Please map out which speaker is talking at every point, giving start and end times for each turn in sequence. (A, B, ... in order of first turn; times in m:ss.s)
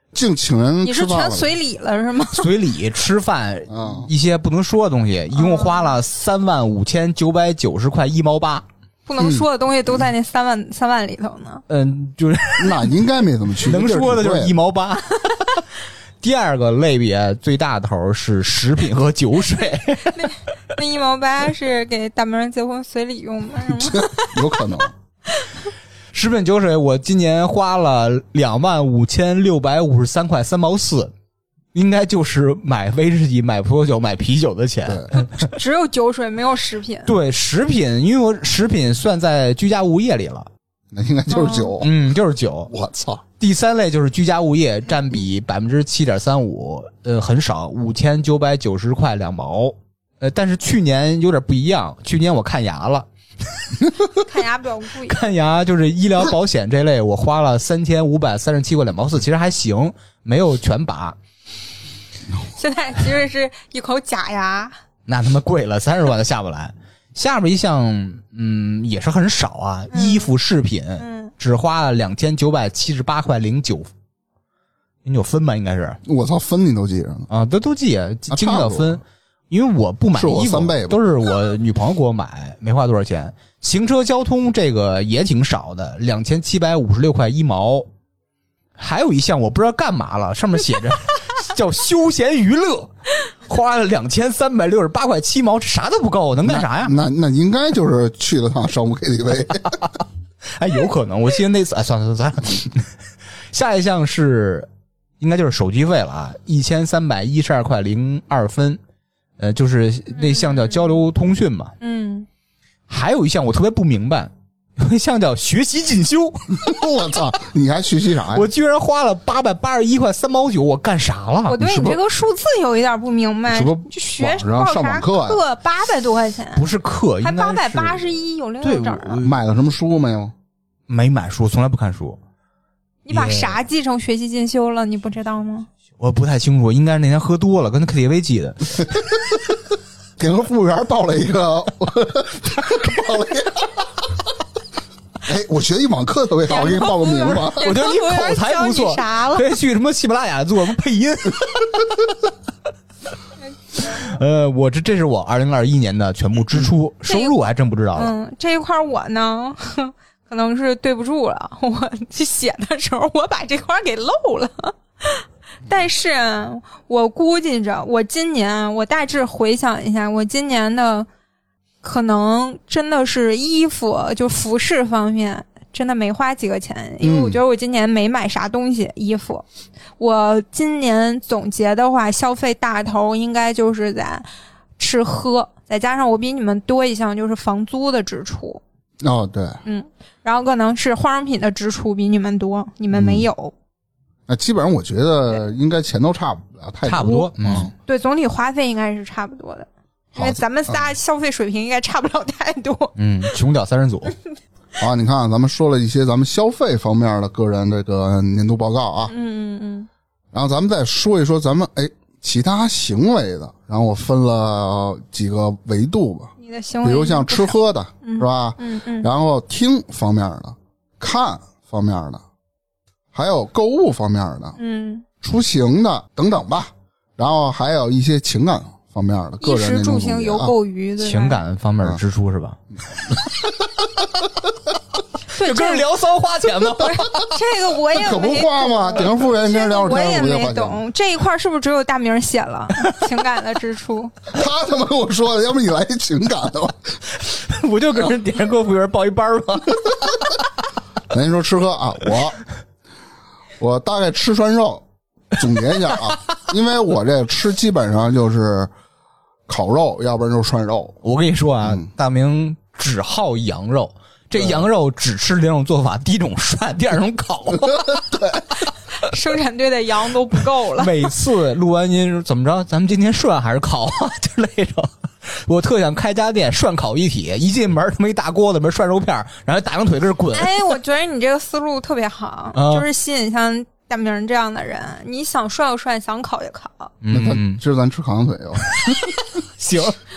0:00.1-0:01.5 A
0:00.8-0:02.5 B
0:02.4-0:08.6 C
0:03.7-0:04.1 A
0:05.4-0:06.0 B
0:09.1-0:11.6 B
0:09.2-0:09.4 A
0:11.7-0:12.9 C
0:12.6-0:14.5 A
0:13.6-0:15.6 C
0:16.2-0:20.3 C
0:20.1-0:24.5 B
0:23.7-0:24.9 A
0:26.1-0:31.1 C
0:31.7-0:35.5 C
0:34.8-0:35.1 A
0:35.3-0:37.1 B
0:37.1-0:40.5 C
0:40.9-0:42.0 A
0:41.3-0:41.7 B
0:41.8-0:42.7 C
0:42.7-0:43.2 A
0:43.4-0:53.1 C
0:54.2-0:55.2 B
0:55.1-1:01.2 C
1:02.6-1:04.8 B
1:05.1-1:13.9 C
1:09.9-1:10.3 B
1:11.0-1:11.3 B
1:15.0-1:16.0 C
1:16.0-1:17.3 A
1:17.3-1:27.9 C
1:18.3-1:19.0 A
1:20.1-1:21.0 A
1:28.8-1:37.0 C
1:36.4-1:39.8 A
1:40.5-1:42.9 C
1:43.5-1:44.7 C
1:45.2-1:48.8 C
1:49.4-1:51.7 C
1:50.1-1:51.0 B
1:51.8-1:52.3 B
1:52.9-1:56.7 C
1:56.6-1:58.5 A
1:58.3-2:01.6 C
2:01.5-2:06.7 B
2:01.6-2:02.0 A
2:03.5-2:05.4 A
2:06.6-2:09.4 C
2:07.2-2:09.2 B
2:09.2-2:10.3 A
2:10.9-2:12.2 C
2:13.1-2:15.7 B
2:13.1-2:13.6 C
2:16.0-2:19.0 C
2:20.2-2:24.1 A
2:25.2-2:27.7 A
2:26.5-2:29.5 B
2:27.6-2:32.2 C
2:33.8-2:38.2 C
2:37.1-2:37.4 B
2:38.0-2:51.1 B
2:51.8-2:59.4 B
2:57.0-2:57.4 A
3:00.0-3:04.3 B
3:04.8-3:08.6 B
3:09.0-3:09.6 A
3:09.7-3:13.5 B
3:12.9-3:13.3 A
3:14.3-3:17.7 A
3:16.9-3:17.7 C
3:17.8-3:22.9 B
3:20.2-3:20.8 A
3:23.0-3:24.1 C
3:24.8-3:29.1 A
3:29.1-3:29.9 B
3:30.3-3:42.2 A
3:36.4-3:39.1 B
3:43.1-3:44.6 A
3:44.6-3:45.0 B
3:45.2-3:50.5 A
3:49.4-3:51.4 B
3:51.0-3:52.6 C
3:55.3-3:55.9 B
3:55.4-3:57.3 C
3:56.7-4:04.1 B
3:57.9-4:00.8 A
4:04.3-4:07.0 A
4:07.1-4:10.4 C
4:11.1-4:12.4 A
4:13.6-4:18.7 A
4:19.5-4:21.0 A
4:21.0-4:28.1 C
4:24.4-4:24.6 A
4:28.1-4:28.4 A
4:29.0-4:31.1 B
4:30.8-4:40.7 C
4:40.3-4:46.9 B
4:42.5-4:42.9 C
4:47.0-4:47.6 C
4:47.1-4:49.1 A
4:48.7-4:50.0 C